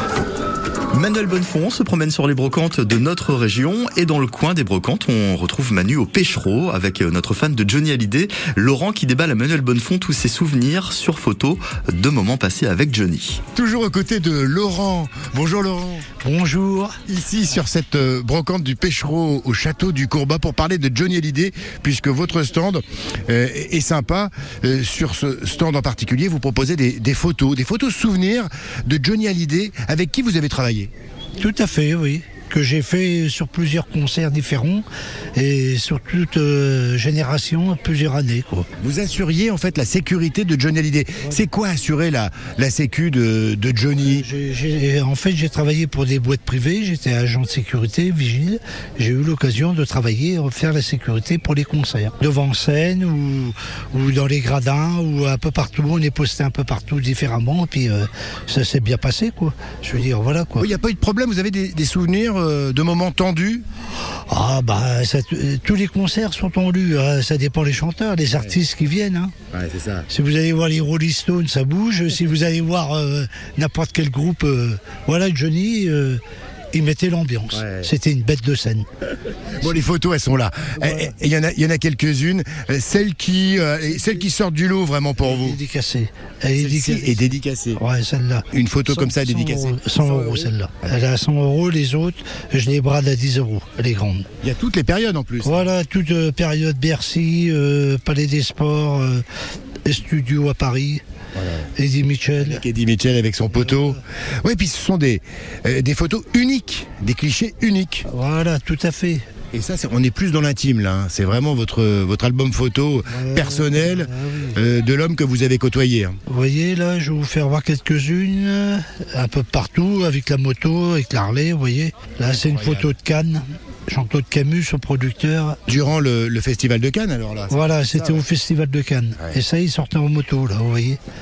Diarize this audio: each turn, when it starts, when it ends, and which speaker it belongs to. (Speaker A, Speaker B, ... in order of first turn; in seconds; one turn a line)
Speaker A: 0.9-13.4
Speaker B: 13.5-16.0
Speaker C: 16.2-17.0
Speaker B: 17.1-30.9
Speaker C: 31.4-38.7
Speaker B: 38.8-44.2
Speaker C: 44.1-60.7
Speaker B: 60.6-63.6
Speaker C: 64.3-69.3
Speaker B: 69.5-70.1
Speaker C: 70.1-76.2
Speaker C: 76.7-78.9
Speaker B: 77.5-77.9
Speaker B: 79.6-85.6
Speaker C: 80.8-81.1
Speaker C: 85.2-94.3
Speaker B: 86.5-87.8
Speaker B: 88.5-90.5
Speaker B: 94.4-95.7
Speaker C: 95.4-99.2
Speaker C: 99.8-101.0
Speaker B: 101.3-101.6
Speaker C: 101.7-102.6
Speaker B: 102.4-108.0
Speaker C: 103.5-104.0
Speaker C: 108.0-109.2
Speaker B: 109.5-116.2
Speaker C: 113.1-114.6
Speaker C: 116.2-125.6
Speaker B: 122.2-122.9
Speaker B: 125.7-128.2
Speaker C: 127.5-131.0